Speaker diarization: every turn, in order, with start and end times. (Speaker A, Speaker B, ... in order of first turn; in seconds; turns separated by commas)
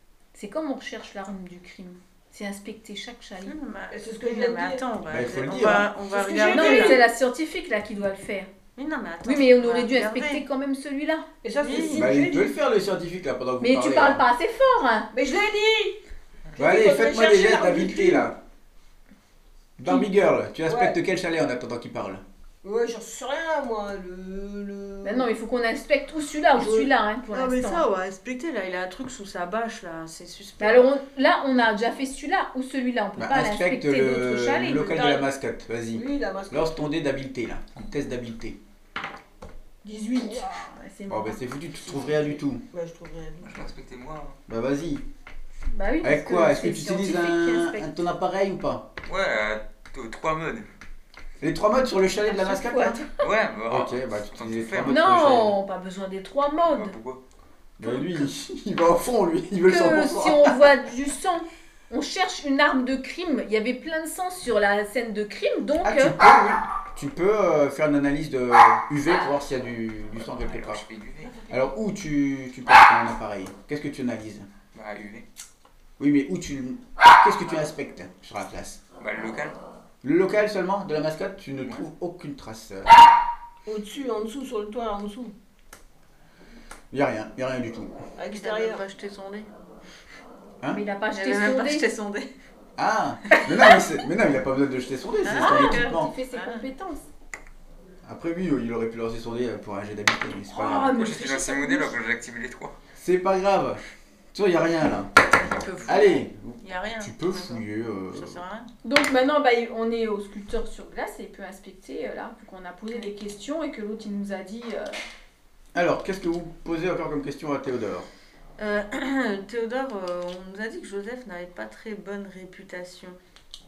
Speaker A: 0.3-3.5, Speaker B: 3.5-7.1, Speaker C: 3.9-4.8, Speaker D: 5.1-5.9, Speaker C: 6.1-7.1, Speaker A: 6.5-8.5, Speaker B: 8.8-10.4, Speaker A: 9.2-11.3, Speaker C: 11.4-12.5, Speaker B: 11.6-12.1, Speaker D: 11.9-14.2, Speaker A: 13.6-15.1, Speaker C: 15.1-16.0, Speaker C: 16.6-18.3, Speaker D: 16.6-18.4, Speaker D: 19.8-22.2, Speaker C: 20.7-20.9, Speaker C: 22.6-25.3, Speaker A: 25.0-27.9, Speaker C: 26.6-26.9, Speaker B: 27.3-30.9, Speaker A: 30.6-35.1, Speaker D: 33.2-38.6, Speaker C: 34.9-35.2, Speaker C: 35.9-36.7, Speaker C: 39.8-40.7, Speaker A: 40.2-42.4, Speaker D: 41.1-42.6, Speaker C: 42.7-43.7, Speaker E: 43.4-44.4, Speaker D: 44.5-45.0, Speaker A: 45.7-48.1, Speaker D: 46.0-48.9, Speaker E: 49.0-50.7, Speaker D: 51.4-53.0, Speaker A: 52.3-53.1, Speaker E: 53.2-55.1, Speaker D: 53.7-55.6, Speaker A: 54.9-57.0, Speaker E: 56.7-57.2, Speaker D: 57.8-60.7, Speaker A: 59.6-66.2, Speaker D: 65.8-70.8, Speaker E: 70.2-71.4, Speaker D: 71.5-74.5, Speaker E: 74.7-75.3, Speaker D: 76.0-78.8, Speaker E: 79.0-79.6, Speaker D: 80.0-82.9, Speaker C: 83.7-85.3, Speaker D: 86.9-87.9, Speaker C: 88.2-88.8, Speaker B: 88.3-89.5, Speaker A: 90.7-91.9, Speaker B: 91.1-92.3, Speaker D: 92.8-96.1, Speaker B: 93.3-93.7, Speaker B: 95.2-96.7, Speaker A: 95.4-97.0, Speaker D: 98.0-101.0, Speaker A: 100.5-102.0, Speaker E: 100.7-102.8, Speaker D: 103.0-103.8, Speaker D: 104.3-105.2, Speaker B: 105.2-108.7, Speaker D: 105.8-108.4, Speaker A: 108.8-115.0, Speaker D: 115.8-118.1, Speaker B: 118.6-123.2